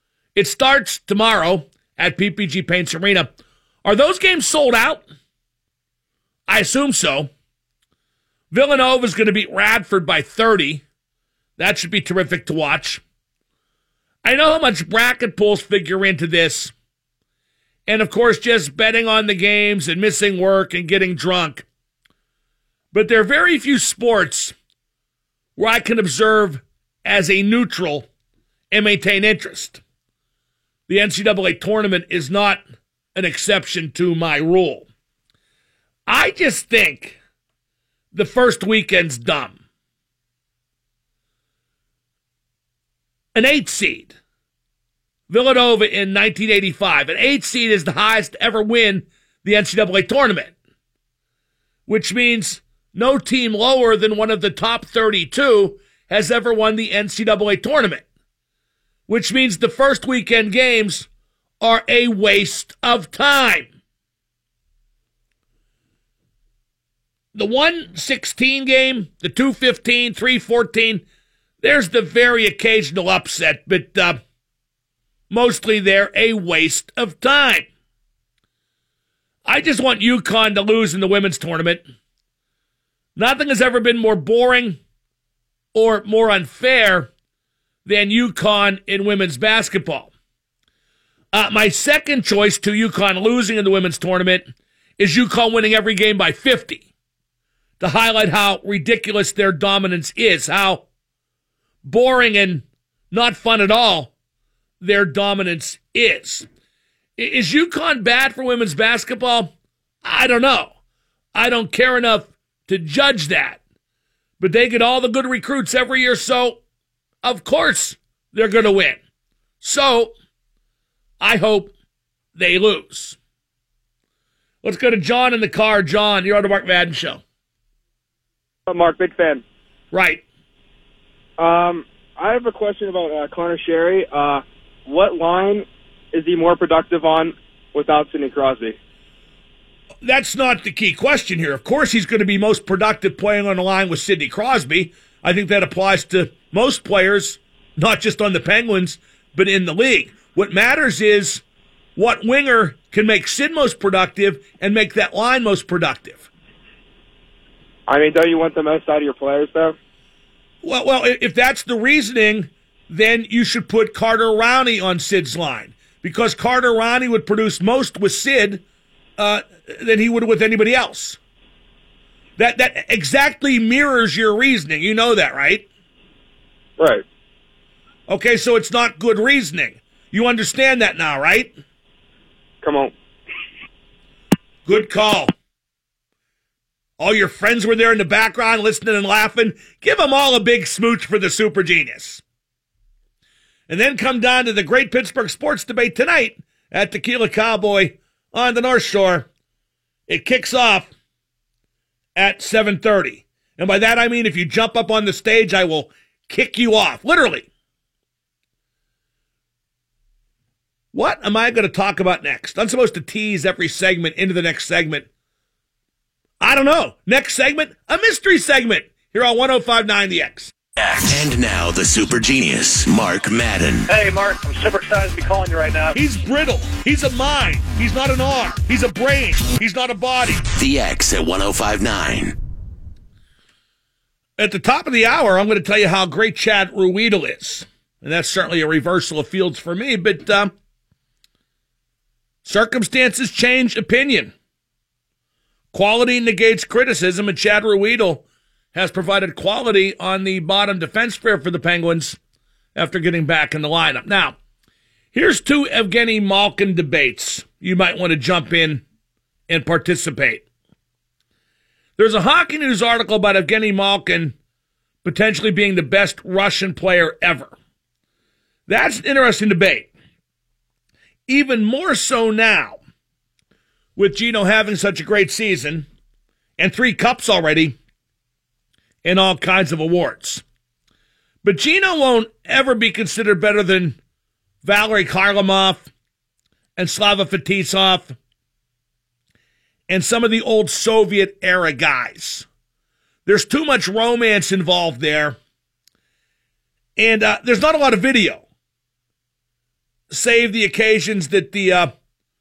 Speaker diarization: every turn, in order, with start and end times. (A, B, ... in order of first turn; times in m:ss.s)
0:00.3-0:03.3 A
0:03.8-0:05.0 A
0:06.5-0:07.3 A
0:08.5-0:10.8 A
0:11.6-0:13.0 A
0:14.2-0:16.7 A
0:17.9-0:21.6 A
0:22.9-0:24.5 A
0:25.6-0:28.1 A
0:28.7-0:29.8 A
0:30.9-0:32.6 A
0:33.1-0:34.9 A
0:36.1-0:37.2 A
0:38.1-0:39.6 A
0:43.3-0:44.1 A
0:45.3-0:50.5 A
0:51.9-0:58.0 A
0:59.1-1:01.1 A
1:01.6-1:03.7 A
1:07.3-1:11.0 A
1:11.6-1:14.2 A
1:15.3-1:17.7 A
1:19.4-1:21.8 A
1:23.2-1:24.8 A
1:25.7-1:27.1 A
1:27.8-1:30.1 A
1:31.3-1:36.8 A
1:37.8-1:40.8 A
1:41.8-1:44.1 A
1:44.8-1:46.5 A
1:47.2-1:50.7 A
1:51.3-1:53.6 A
1:54.4-1:56.6 A
1:57.2-1:59.0 A
1:59.6-2:00.1 A
2:01.2-2:01.7 A
2:02.3-2:03.2 A
2:04.6-2:07.2 A
2:08.7-2:09.4 B
2:09.9-2:10.2 A
2:11.4-2:18.8 B
2:20.0-2:31.4 A
2:32.0-2:36.3 A
2:37.9-2:39.8 B
2:40.6-2:48.6 A
2:49.2-2:51.2 A
2:52.4-2:55.6 A
2:56.8-2:57.0 B
2:58.1-3:01.5 A
3:02.6-3:02.9 B
3:04.6-3:05.3 A
3:07.0-3:12.2 A
3:13.7-3:19.3 A
3:20.1-3:20.9 A
3:22.2-3:27.5 A
3:30.9-3:35.1 A
3:36.4-3:40.5 A
3:41.0-3:43.9 C
3:43.9-3:45.9 D
3:45.9-3:50.4 A
3:50.5-3:52.3 C
3:54.4-4:00.5 A
4:02.4-4:04.3 A
4:05.7-4:12.2 A
4:12.7-4:14.4 A
4:15.1-4:18.8 A
4:19.5-4:20.4 A
4:22.0-4:24.3 A
4:25.0-4:27.5 A
4:28.7-4:29.9 A
4:31.3-4:32.8 A
4:34.0-4:35.9 A
4:36.6-4:37.8 A
4:39.0-4:40.4 A
4:41.4-4:44.0 A
4:44.6-4:45.9 A
4:46.8-4:48.2 A
4:49.9-4:52.5 A
4:53.2-4:55.4 A
4:57.0-4:58.4 A
5:00.1-5:01.9 A